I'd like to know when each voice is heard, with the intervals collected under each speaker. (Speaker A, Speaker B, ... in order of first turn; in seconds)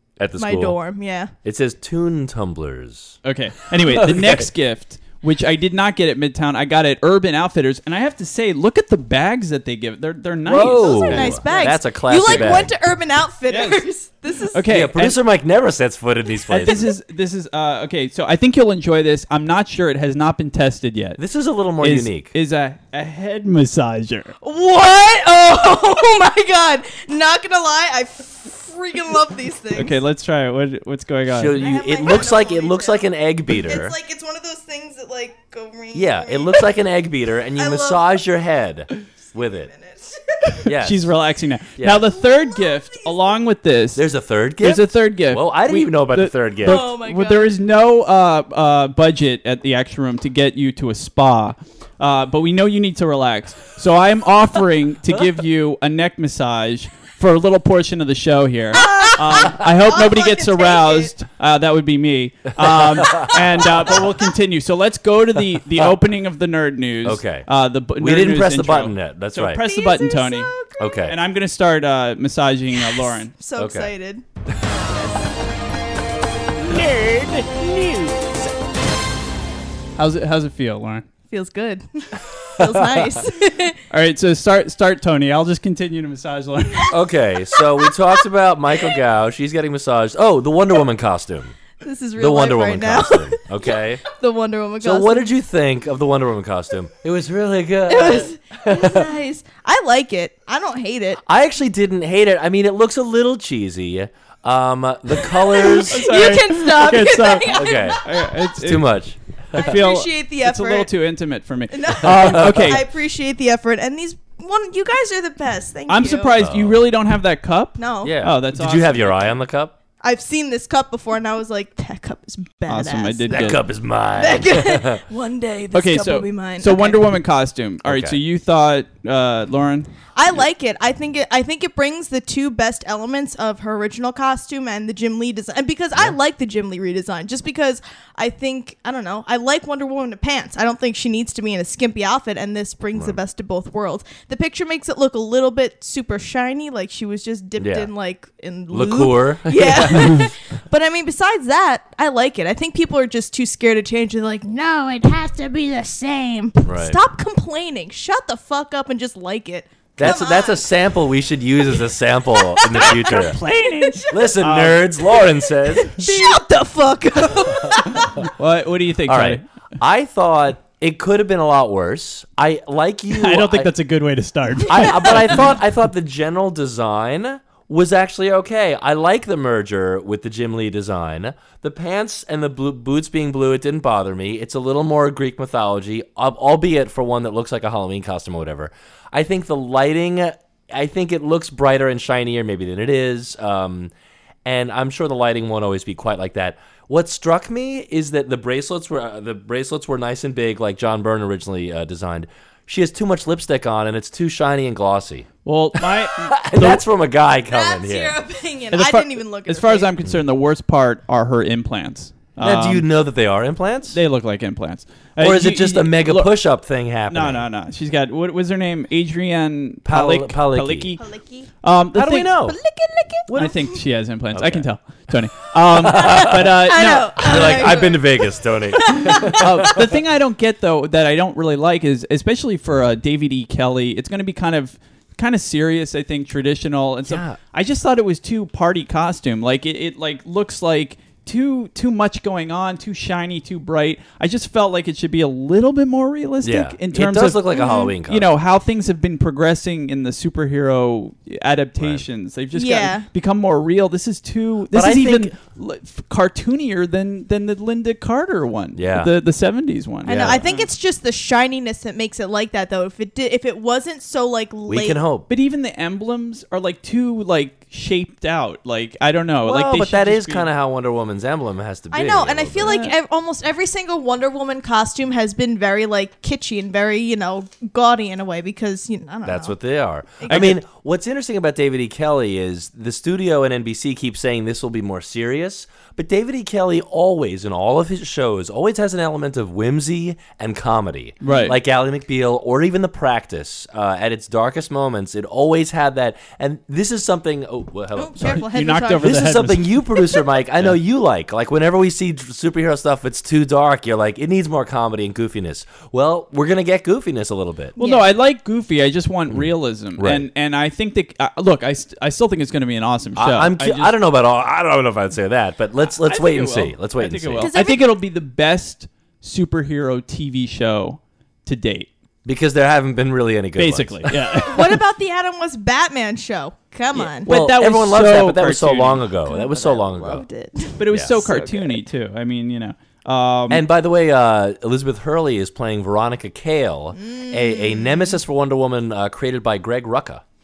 Speaker A: 0.2-0.8, 1.4-3.2, 3.8-4.5, 10.4-12.7, 14.7-16.9, 21.2-22.3, 31.3-34.0, 35.9-39.7, 40.6-41.1, 41.8-42.1, 44.0-46.8, 62.7-63.4, 67.0-69.6, 70.8-71.2, 73.6-73.9, 82.6-83.2, 86.9-91.6, 92.2-94.0, 94.8-99.1, 101.2-106.1, 107.5-108.0, 108.6-109.8, 112.1-112.8, 116.4-116.8, 118.0-119.8, 123.3-125.0, 127.8-128.2, 147.6-147.9, 148.7-150.3, 156.7-157.0, 160.0-163.4, 164.1-166.1, 169.1-173.7, 174.7-193.9, 194.4-208.2, 212.4-214.0, 215.2-217.4, 219.8-220.9, 221.9-222.6, 223.3-223.6, 224.3-224.7, 225.7-226.5, 227.2-229.9, 237.1-237.4, 246.4-248.3, 251.8-252.0, 254.7-255.3, 258.8-259.1, 260.1-260.4, 264.7-265.3, 269.4-272.7, 279.2-307.8, 309.3-310.3, 313.2-317.5, 322.2-324.5, 327.3-330.2, 333.5-340.2
Speaker B: 0.4-1.3, 10.6-14.7, 24.4-30.0, 31.5-36.8, 37.5-38.2, 39.5-40.7, 42.2-43.1, 46.6-47.5, 58.7-61.1, 69.6-70.9, 72.9-74.2, 81.3-83.8, 91.8-95.3, 97.9-101.2, 105.3-108.3, 109.5-110.9, 111.7-116.4, 117.8-118.2, 120.0-123.6, 124.2-127.0, 130.2-160.7, 162.3-164.2, 165.1-168.2, 207.5-209.9, 221.0-221.5, 222.5-223.6, 225.9-229.7, 247.5-248.0, 252.5-253.1, 260.1-265.0, 271.9-279.6, 280.2-280.6, 298.0-299.4, 299.9-300.2, 307.8-308.1, 317.4-317.9, 324.4-327.3, 329.3-331.8, 336.9-338.2
Speaker C: 3.2-11.7, 12.3-12.5, 13.5-13.8, 14.5-15.2, 16.5-21.2, 21.8-24.3, 29.8-31.6, 40.8-44.1, 44.6-70.5, 71.1-73.3, 76.7-78.2, 80.0-81.1, 83.9-86.9, 105.9-108.9, 109.5-112.8, 115.9-119.2, 122.7-123.6, 125.7-129.9, 162.9-164.8, 168.2-169.4, 173.1-175.4, 205.4-206.8, 208.7-212.9, 213.9-216.3, 217.1-221.1, 221.6-222.4, 223.3-227.7, 229.3-260.7, 265.3-270.5, 272.6-272.9, 280.3-280.5, 291.2-291.6, 298.2-299.8, 307.8-313.9, 315.8-321.9, 323.6-324.8, 326.9-329.1, 330.8-333.6